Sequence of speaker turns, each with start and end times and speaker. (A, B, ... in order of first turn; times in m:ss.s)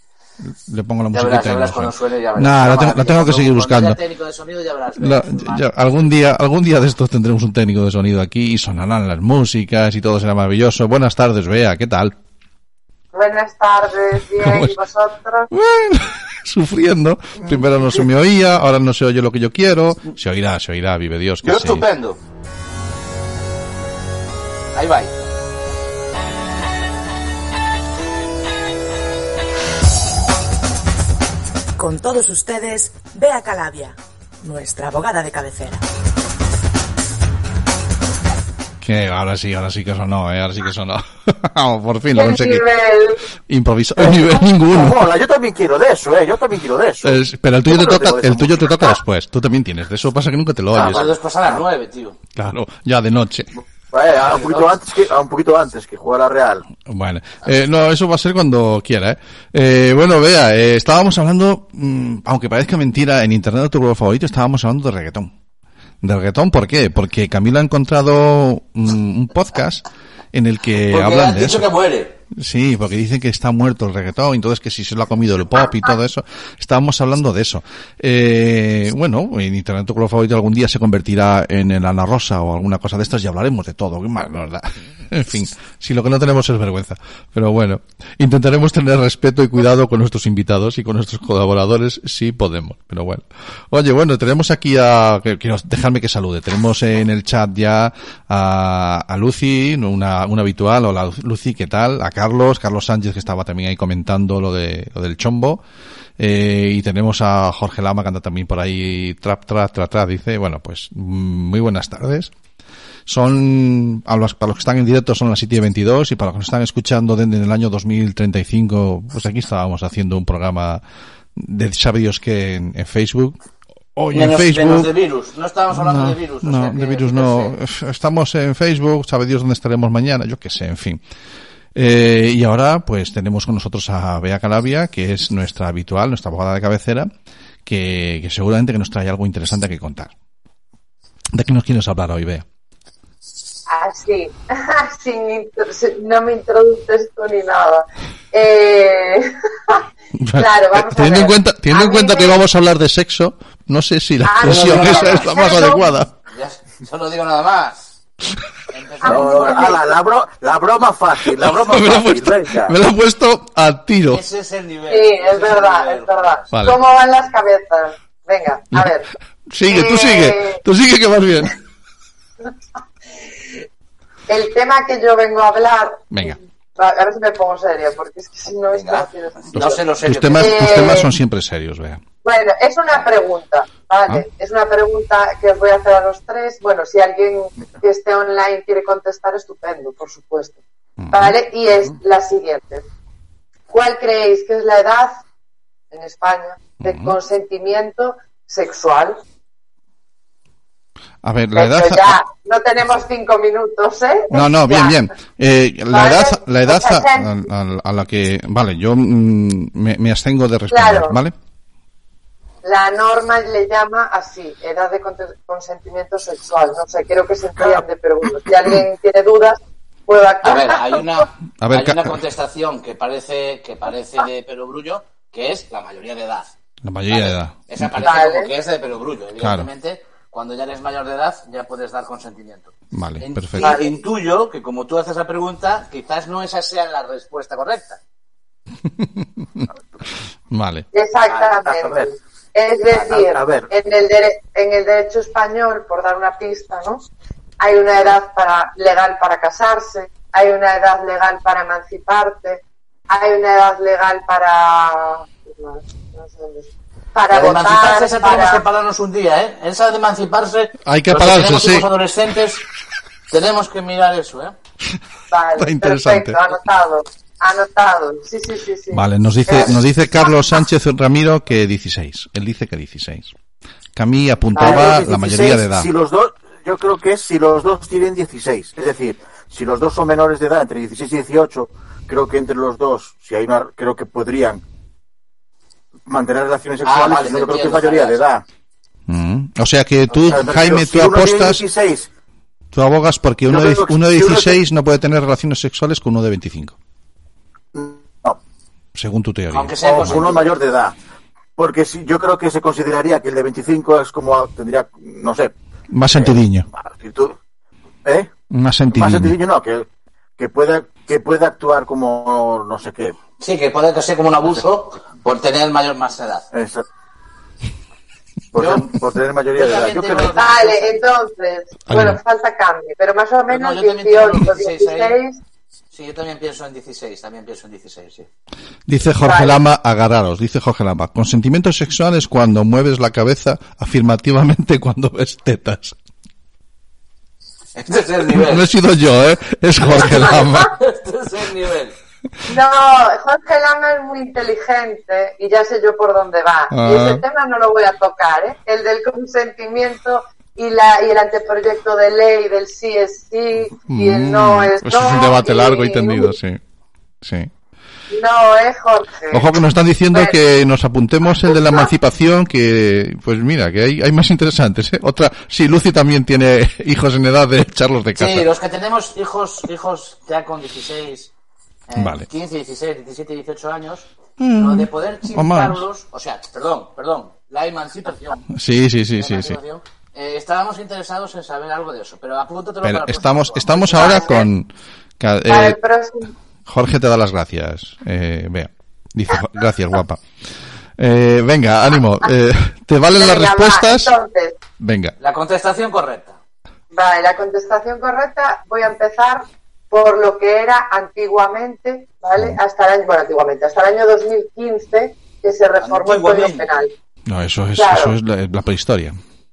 0:00.4-0:04.0 A
0:01.1-0:05.6 B
0:05.0-0:12.1 A
0:13.1-0:15.5 C
0:14.2-0:14.8 A
0:15.5-0:21.9 A
0:21.4-0:22.2 B
0:24.8-0:25.1 B
0:31.8-0:35.8 D
0:38.8-0:42.7 A
0:42.1-0:43.2 C
0:43.5-0:45.0 A
0:44.0-0:48.9 E
0:47.0-0:51.1 A
0:50.7-0:52.2 B
0:50.7-0:51.6 E
0:52.4-0:53.5 A
0:53.9-0:56.6 E
0:56.9-1:05.3 A
1:06.0-1:11.7 A
1:10.9-1:12.1 B
1:12.4-1:45.6 A
1:46.2-1:52.3 A
1:53.1-2:00.8 A
2:01.4-2:03.4 A
2:04.0-2:04.9 A
2:04.1-2:07.6 B
2:05.7-2:11.0 A
2:11.8-2:17.1 A
2:17.7-2:20.1 A
2:21.3-2:22.4 A
2:23.7-2:29.8 C
2:30.1-2:36.1 A
2:30.4-2:32.4 C
2:34.2-2:35.9 C
2:34.4-2:35.6 B
2:36.3-2:37.8 B
2:38.7-2:39.8 B
2:39.0-2:39.8 C
2:39.0-2:42.8 E
2:41.4-2:44.2 A
2:44.1-2:46.5 B
2:44.9-2:49.1 C
2:46.5-2:46.8 A
2:48.7-2:51.6 A
2:49.7-2:50.6 C
2:54.3-2:59.8 C
2:56.1-2:56.4 A
2:58.7-3:01.1 B
2:59.5-3:02.0 A
3:00.4-3:01.1 C
3:02.2-3:10.6 C
3:11.0-3:11.4 A
3:11.1-3:12.9 C
3:13.7-3:15.2 C
3:15.9-3:19.2 C
3:16.8-3:17.2 A
3:21.2-3:22.2 A
3:21.6-3:25.0 C
3:24.3-3:31.3 A
3:25.9-3:27.3 C
3:30.7-3:31.2 C
3:32.6-3:40.8 C
3:40.4-3:46.5 B
3:41.6-3:42.2 A
3:46.8-3:47.9 A
3:47.1-3:58.0 B
3:48.0-3:48.5 C
3:49.4-3:49.7 A
3:52.9-3:53.8 A
3:53.6-3:53.9 C
3:58.8-3:59.7 A
4:00.5-4:00.9 A
4:00.9-4:07.1 C
4:01.3-4:01.6 B
4:01.5-4:02.1 E
4:03.0-4:03.7 E
4:07.6-4:18.6 C
4:17.3-4:22.6 B
4:20.8-4:21.9 A
4:23.3-4:24.5 B
4:25.3-4:29.8 C
4:25.6-4:26.4 A
4:28.9-4:33.3 A
4:34.0-4:35.9 A
4:34.5-4:35.0 C
4:34.6-4:44.6 E
4:46.1-4:48.4 E
4:46.8-4:48.2 B
4:49.1-4:51.6 A
4:50.3-4:52.1 E
4:52.7-4:56.8 A
4:53.5-4:54.6 E
4:57.7-4:58.4 E
4:59.0-5:00.2 A
4:59.5-5:00.5 B
4:59.8-5:01.0 E
5:01.6-5:05.5 E
5:05.9-5:06.7 A
5:06.1-5:07.4 E
5:08.0-5:08.3 E
5:08.5-5:09.4 A
5:08.9-5:13.2 E
5:13.4-5:16.5 B
5:16.5-5:16.8 E
5:18.5-5:20.4 E
5:18.6-5:18.9 B
5:19.5-5:21.0 B
5:20.4-5:25.4 C
5:21.9-5:22.2 A
5:23.5-5:25.2 B
5:25.9-5:28.3 B
5:28.9-5:36.0 A
5:29.2-5:29.6 C
5:37.8-5:38.7 B
5:38.3-5:40.7 A
5:39.8-5:42.0 B
5:42.4-5:56.3 C
5:46.7-5:47.2 A
5:53.9-5:56.6 A
5:57.2-5:57.5 A
5:58.1-5:59.5 C
5:59.3-6:08.5 A
6:00.1-6:00.4 C
6:08.2-6:11.3 B
6:11.9-6:18.4 B
6:12.0-6:12.3 A
6:14.4-6:15.8 A
6:18.6-6:19.6 A
6:19.2-6:24.4 B
6:22.8-6:24.7 A
6:23.9-6:24.5 C
6:25.2-6:25.8 A
6:25.5-6:26.3 C
6:26.7-6:30.2 A
6:31.0-6:34.1 A
6:33.1-6:34.6 C
6:34.8-6:35.1 A
6:35.2-6:36.4 B
6:36.9-6:46.9 C
6:45.8-6:46.7 B
6:47.3-6:49.2 A
6:47.8-6:48.2 C